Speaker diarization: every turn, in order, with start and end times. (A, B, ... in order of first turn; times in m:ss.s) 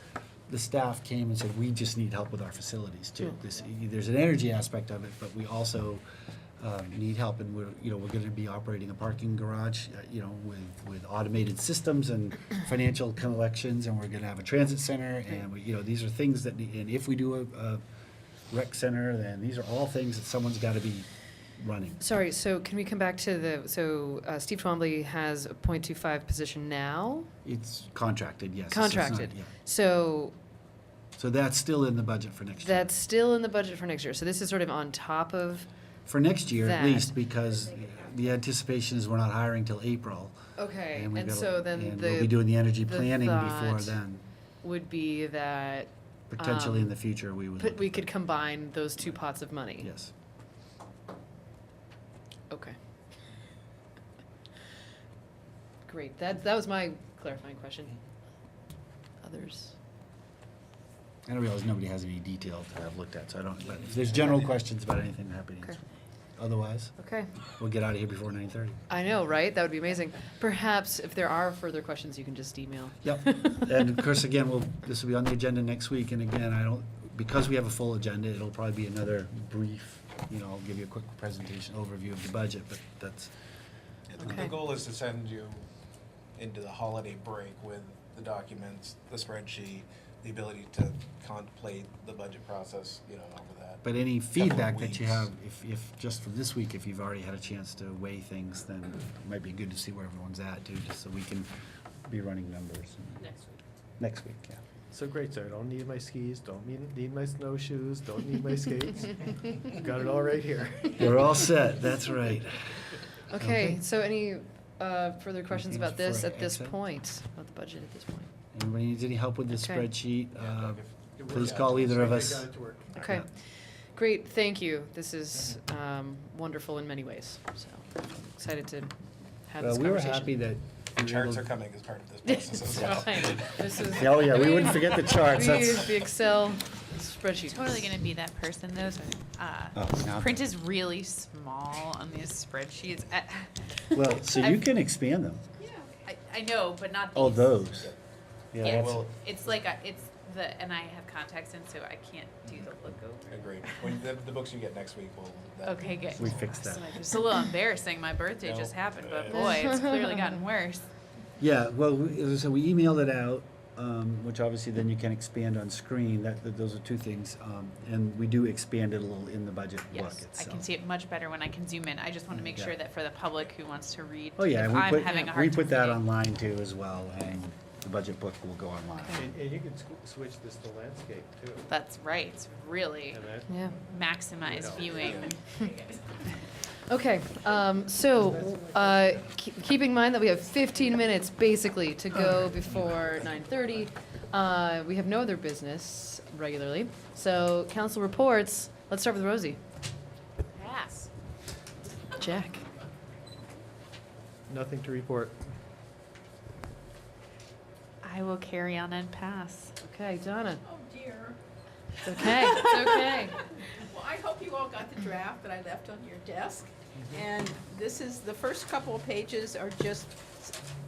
0:00.5-0:06.0 A
0:06.6-0:17.8 A
0:18.5-0:22.0 A
0:22.0-0:27.3 B
0:27.4-0:29.5 A
0:28.7-0:30.3 B
0:31.2-0:32.9 A
0:32.6-0:35.7 B
0:36.1-0:40.3 A
0:36.5-0:37.2 B
0:40.6-0:44.0 B
0:40.9-0:44.2 A
0:44.6-0:47.0 B
0:46.3-0:48.0 A
0:47.6-0:49.9 B
0:49.8-0:50.1 A
0:52.5-0:52.8 B
0:55.9-0:58.0 B
0:59.2-0:59.8 B
1:01.3-1:05.8 A
1:06.4-1:07.0 A
1:07.0-1:07.3 B
1:07.6-1:08.8 A
1:08.9-1:14.0 B
1:13.0-1:23.3 A
1:24.1-1:25.6 C
1:24.2-1:24.5 B
1:24.2-1:24.5 A
1:26.4-1:35.3 C
1:33.8-1:41.5 A
1:42.0-1:43.4 A
1:44.0-1:44.6 A
1:44.9-1:51.1 D
1:51.0-1:53.8 A
1:53.3-1:58.3 B
1:55.5-1:56.7 A
1:58.5-2:03.2 A
1:59.5-1:59.9 B
2:00.3-2:01.8 C
2:01.2-2:03.0 D
2:03.0-2:08.9 B
2:09.5-2:10.4 B
2:09.6-2:11.5 A
2:11.0-2:13.9 C
2:12.2-2:18.0 B
2:13.9-2:15.9 A
2:17.5-2:23.5 E
2:19.7-2:20.4 A
2:23.9-2:25.4 A
2:25.6-2:25.9 F
2:26.0-2:27.7 E
2:27.1-2:27.9 A
2:28.5-2:29.0 A
2:28.6-2:29.2 C
2:28.6-2:33.8 E
2:33.3-2:36.5 C
2:35.6-2:40.8 E
2:36.2-2:37.0 A
2:38.4-2:39.6 C
2:39.6-2:40.0 B
2:41.4-2:50.7 A
2:49.9-2:56.0 E
2:52.4-2:52.7 A
2:54.4-2:59.4 A
2:59.2-3:01.7 D
3:01.7-3:06.4 E
3:03.1-3:03.6 D
3:03.5-3:03.8 B
3:04.4-3:05.3 D
3:06.9-3:19.6 B
3:08.2-3:09.1 D
3:20.5-3:21.1 E
3:22.2-3:22.6 B
3:24.5-3:25.4 D
3:28.0-3:29.7 E
3:29.8-3:30.6 B
3:30.6-3:31.4 F
3:32.0-3:33.5 B
3:32.2-3:40.6 F